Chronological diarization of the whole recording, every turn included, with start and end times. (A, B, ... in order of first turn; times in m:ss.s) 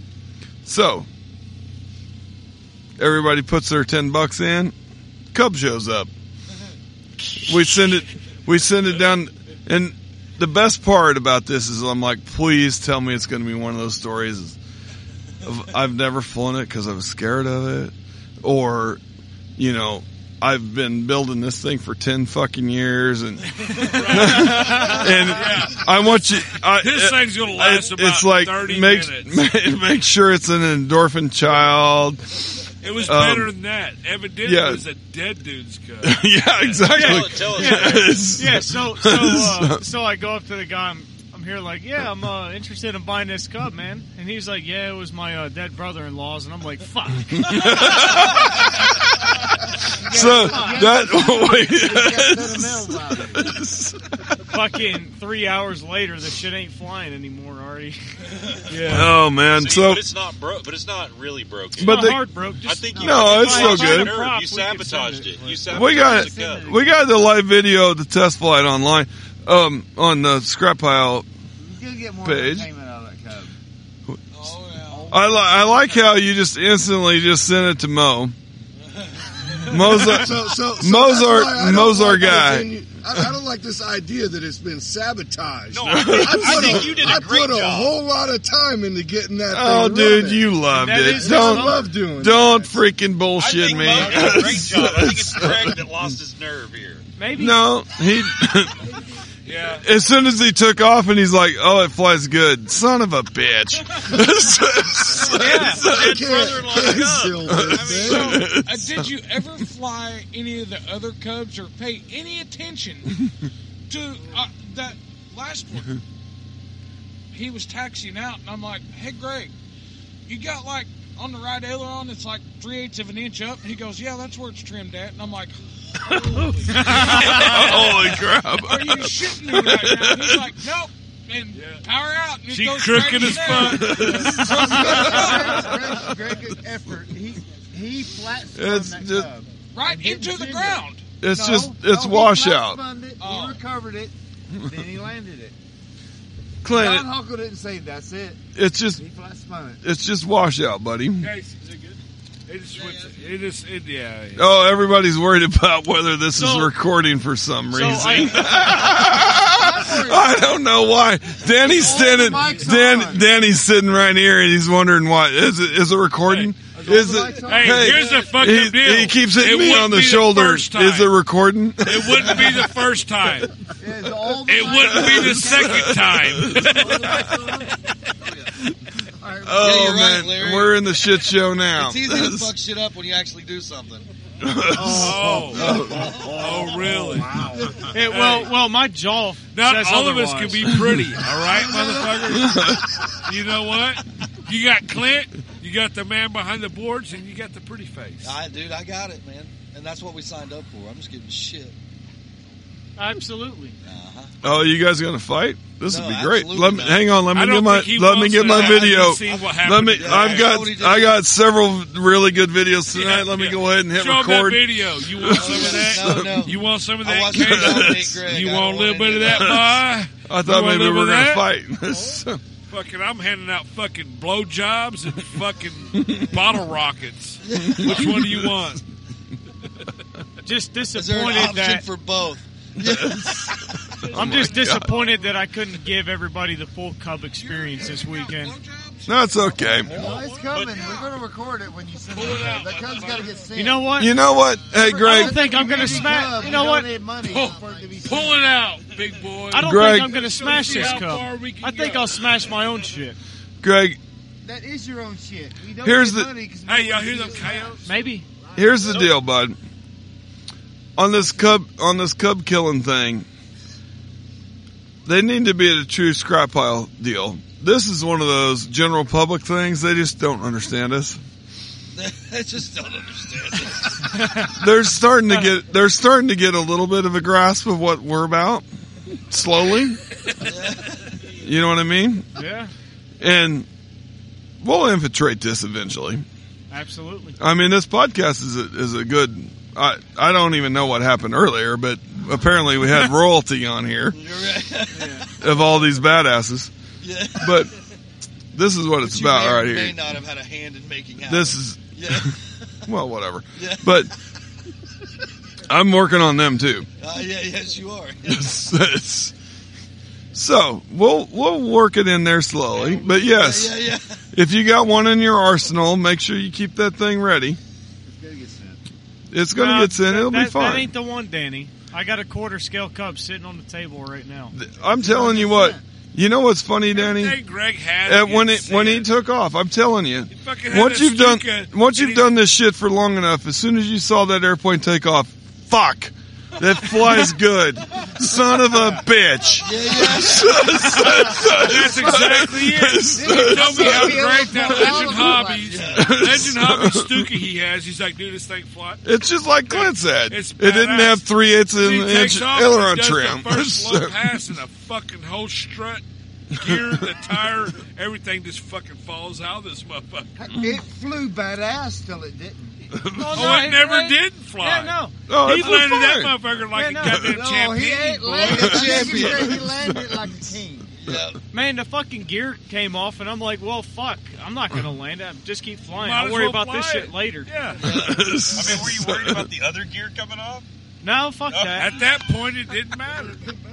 0:00.6-0:01.1 A
0:03.0-0:04.7 A
0:05.3-0:06.1 A
0:07.5-0:14.6 A
0:15.4-0:19.0 A
0:19.6-0:32.3 A
0:23.8-0:29.4 B
0:24.6-0:25.0 C
0:32.8-0:37.0 B
0:33.0-0:33.5 A
0:34.4-0:34.8 A
0:36.0-0:39.8 A
0:36.9-0:38.2 D
0:37.0-0:48.0 C
0:47.4-0:48.5 A
0:50.0-0:53.5 E
0:50.1-0:54.0 A
0:50.4-0:50.8 C
0:54.5-0:58.0 C
0:58.7-0:59.1 C
0:58.8-1:00.1 A
0:59.5-1:02.1 D
1:01.8-1:02.2 A
1:01.8-1:05.3 C
1:02.6-1:06.8 D
1:03.0-1:03.2 E
1:03.0-1:04.2 A
1:05.2-1:07.2 E
1:05.7-1:11.3 A
1:11.6-1:13.5 E
1:12.2-1:12.7 A
1:14.1-1:14.5 A
1:14.3-1:15.2 F
1:14.8-1:16.0 E
1:15.1-1:18.3 A
1:19.7-1:23.3 A
1:20.2-1:30.4 G
1:25.7-1:27.9 D
1:25.8-1:27.0 A
1:29.5-1:35.7 A
1:30.7-1:31.8 C
1:31.2-1:32.7 E
1:31.3-1:32.4 G
1:33.4-1:37.0 D
1:37.2-1:37.6 C
1:37.3-1:38.8 A
1:39.5-1:39.8 B
1:39.8-1:49.1 A
1:45.1-1:48.4 D
1:45.4-1:45.8 C
1:46.1-1:48.5 E
1:46.2-1:47.3 G
1:48.2-1:53.2 F
1:53.9-1:56.0 F
1:57.3-1:59.5 F
2:00.3-2:08.0 F
2:06.7-2:07.5 C
2:07.0-2:10.5 A
2:07.0-2:08.0 B
2:08.5-2:15.9 F
2:11.5-2:11.8 B
2:12.5-2:14.1 B
2:13.1-2:16.2 A
2:13.9-2:24.1 E
2:18.6-2:19.3 A
2:19.7-2:21.0 F
2:21.2-2:22.8 A
2:23.2-2:23.6 F
2:24.6-2:25.5 E
2:26.6-2:27.1 A
2:26.6-2:28.4 E
2:28.6-2:29.0 A
2:29.0-2:29.8 E
2:29.8-2:31.3 A
2:31.2-2:31.9 B
2:32.5-2:34.5 B
2:32.8-2:33.1 F
2:34.4-2:52.7 A
2:36.4-2:36.7 C
2:37.7-2:38.5 C
2:39.4-2:40.6 E
2:41.4-2:43.3 E
2:46.3-2:46.5 B
2:46.7-2:48.2 E
2:47.4-2:51.1 B
2:51.8-2:53.5 B
2:53.8-2:57.7 E
2:54.4-2:57.3 B
2:54.7-2:57.2 A
2:59.2-3:00.0 E
2:59.4-3:02.5 A
2:59.6-3:00.8 H
3:01.8-3:04.1 H
3:04.4-3:06.5 A
3:04.8-3:07.9 E
3:04.8-3:07.4 B
3:07.9-3:10.6 C
3:08.0-3:08.6 B
3:09.5-3:18.3 B
3:10.7-3:11.0 A
3:12.2-3:12.8 A
3:18.2-3:21.7 H
3:23.0-3:23.8 C
3:23.8-3:24.3 H
3:24.4-3:36.6 A
3:25.9-3:27.1 H
3:27.3-3:30.6 B
3:28.4-3:31.1 H
3:32.9-3:41.5 B
3:35.3-3:39.6 H
3:37.3-3:38.2 A
3:39.3-3:42.4 A
3:42.7-3:48.8 B
3:46.0-3:46.3 A
3:47.4-3:48.2 H
3:47.7-3:48.6 A
3:50.4-3:51.8 C
3:50.9-3:53.5 H
3:52.8-3:55.0 A
3:54.1-3:54.8 B
3:54.1-3:58.6 C
3:57.3-4:00.4 F
3:59.1-4:00.1 A
3:59.8-4:03.9 E
4:00.5-4:00.9 D
4:02.1-4:03.3 B
4:03.6-4:04.1 C
4:03.9-4:05.4 A
4:04.6-4:08.4 E
4:05.0-4:06.9 C
4:07.3-4:12.5 B
4:09.5-4:13.2 C
4:09.5-4:10.2 A
4:13.6-4:14.0 A
4:14.4-4:19.0 E
4:15.8-4:16.3 A
4:16.7-4:17.9 B
4:17.8-4:18.3 C
4:18.6-4:19.6 A
4:21.0-4:23.3 A
4:25.0-4:31.2 A
4:32.0-4:34.0 H
4:34.2-4:34.5 C
4:34.6-4:38.6 A
4:39.3-4:40.0 A
4:40.4-4:41.0 H
4:41.4-4:42.3 A
4:42.4-4:42.7 C
4:43.2-4:43.7 A
4:44.6-4:46.2 A
4:46.7-4:47.4 C
4:47.4-4:54.2 A
4:54.1-4:55.3 H
4:54.9-4:55.3 C
4:55.4-4:56.7 A
4:57.0-4:57.6 H
4:57.4-4:57.7 A
4:58.5-5:00.1 A
4:59.0-5:02.4 H
5:01.3-5:02.3 A
5:02.9-5:04.1 A
5:03.6-5:04.0 H
5:05.7-5:06.9 A
5:07.0-5:08.4 H
5:08.2-5:09.3 A
5:10.3-5:13.8 A
5:12.8-5:14.2 H
5:14.3-5:17.6 A
5:18.1-5:18.8 E
5:19.3-5:20.9 A
5:19.5-5:24.5 C
5:24.5-5:27.4 A
5:24.8-5:25.8 E
5:26.9-5:29.1 B
5:28.0-5:47.4 A
5:30.3-5:32.3 B
5:38.7-5:39.0 E
5:39.6-5:40.7 H
5:41.0-5:49.0 B
5:41.8-5:42.2 E
5:43.1-5:45.9 E
5:45.6-5:46.1 H
5:49.0-5:54.6 A
5:49.7-5:56.0 B
5:56.6-6:00.3 B
5:56.6-5:57.4 A
6:00.4-6:02.9 E
6:03.0-6:03.4 A
6:03.2-6:05.8 C
6:03.3-6:09.0 B
6:05.3-6:06.4 A
6:06.7-6:07.3 C
6:07.2-6:10.9 E
6:08.5-6:10.3 A
6:08.7-6:09.6 H
6:11.0-6:11.4 H
6:11.5-6:17.5 C
6:15.9-6:17.9 B
6:17.8-6:18.3 H
6:17.9-6:19.5 A
6:18.5-6:20.6 D
6:21.0-6:22.0 C
6:21.5-6:21.8 D
6:21.7-6:23.4 B